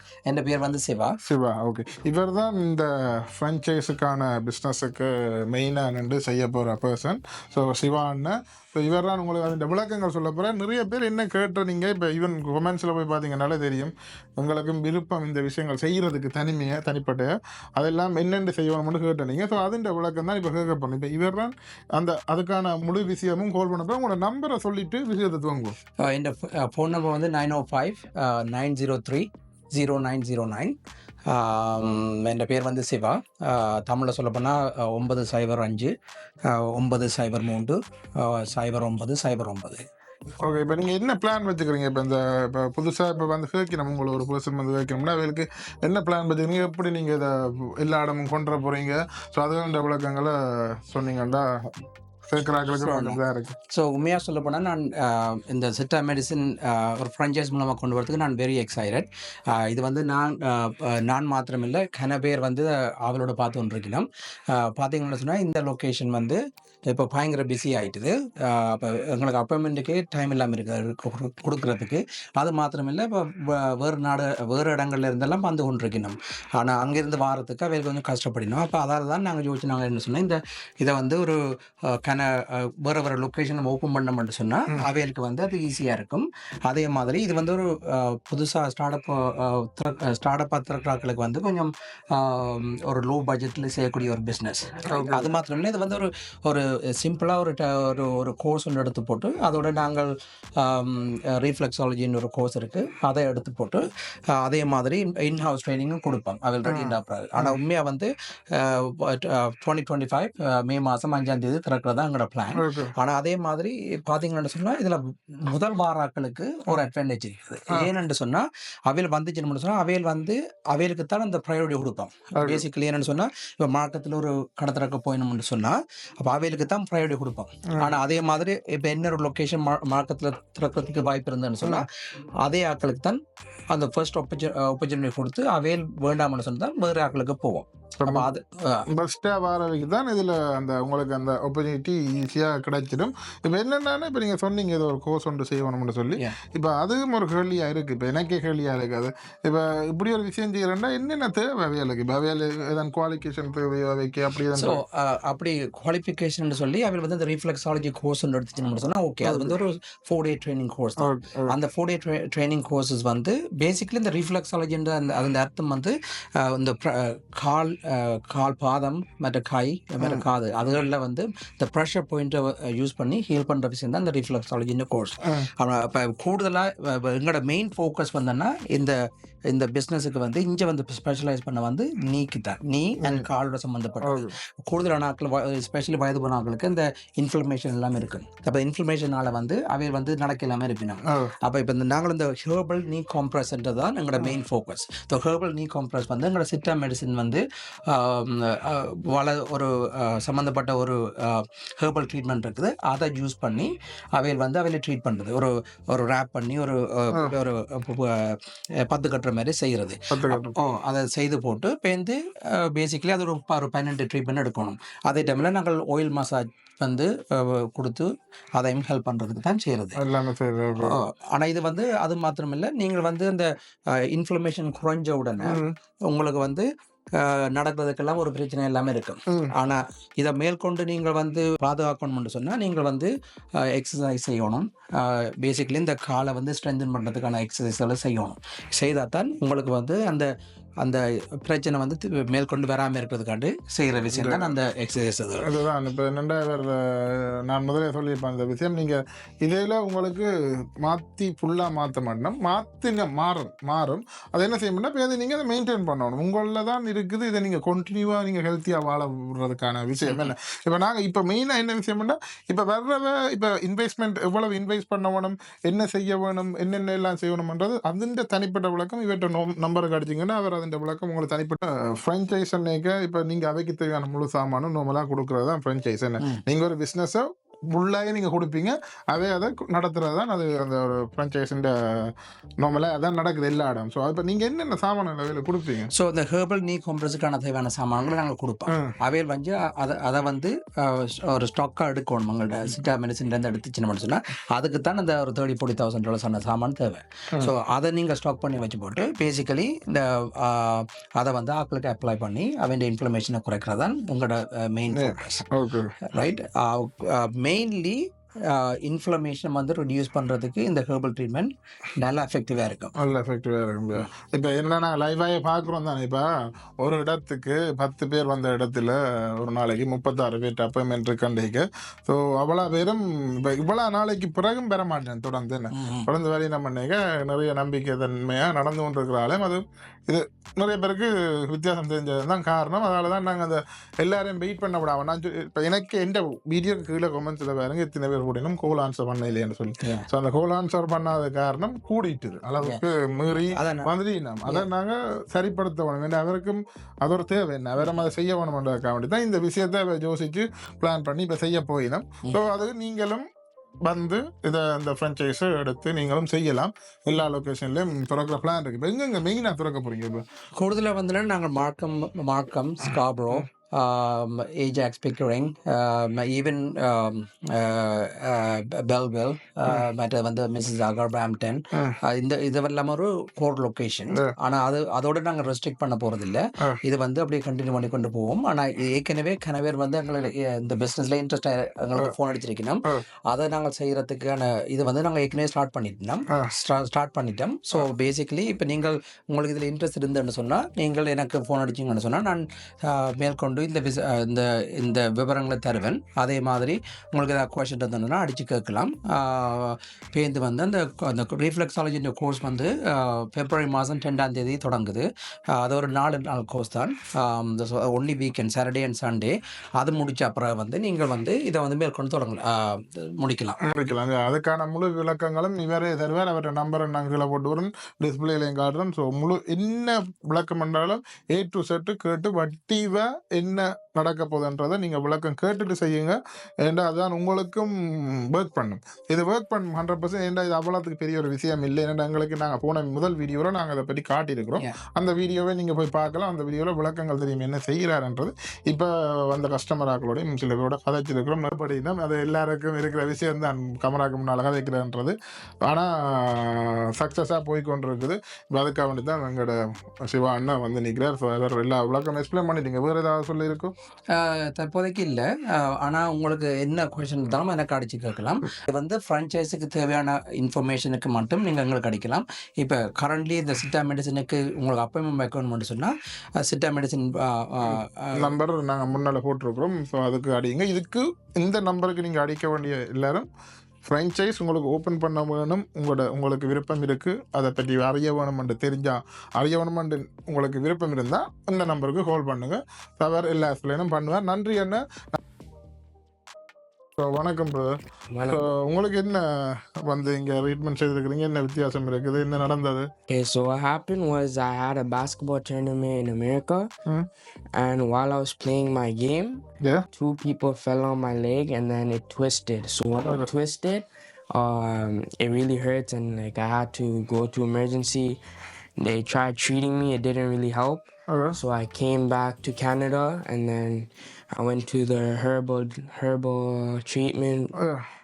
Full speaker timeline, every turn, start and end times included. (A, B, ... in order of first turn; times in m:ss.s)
0:00.3-0:01.2 A
0:01.2-0:25.8 B
0:26.0-0:35.9 A
0:36.5-0:39.8 A
0:40.4-0:51.7 B
0:52.3-0:53.5 B
0:52.8-0:53.2 A
0:53.7-2:11.9 A
1:34.9-1:35.3 B
1:46.6-1:47.6 B
1:52.5-1:52.9 B
2:02.3-2:02.6 B
2:12.4-2:18.9 A
2:18.0-2:18.3 B
2:18.9-2:34.8 B
2:34.6-2:59.0 A
2:39.2-2:39.6 B
2:41.0-2:41.6 B
2:50.0-2:50.2 B
2:59.5-3:40.0 A
3:03.0-3:03.2 B
3:04.0-3:04.4 B
3:30.1-3:30.6 B
3:40.0-3:41.0 B
3:40.8-4:00.3 A
3:45.4-3:45.8 B
3:49.3-3:49.5 B
4:00.8-4:05.5 A
4:04.1-4:04.5 B
4:05.4-4:10.3 B
4:10.8-4:45.9 B
4:45.9-5:05.4 A
4:48.7-4:48.9 B
5:04.9-5:05.9 B
5:06.0-5:12.9 A
5:13.0-5:53.2 B
5:25.7-5:26.1 A
5:39.8-5:40.1 A
5:43.4-5:43.9 A
5:53.8-6:00.2 B
6:00.6-6:53.6 A
6:53.6-7:25.1 B
7:25.6-7:33.7 B
7:34.1-7:45.9 A
7:46.4-7:48.3 A
7:47.6-7:53.3 B
7:53.8-8:05.2 B
8:07.0-8:12.9 B
8:08.1-8:08.5 C
8:13.1-8:16.7 C
8:17.6-8:19.4 C
8:19.9-8:28.2 C
8:28.8-8:37.5 C
8:31.1-8:31.4 B
8:37.6-8:37.8 B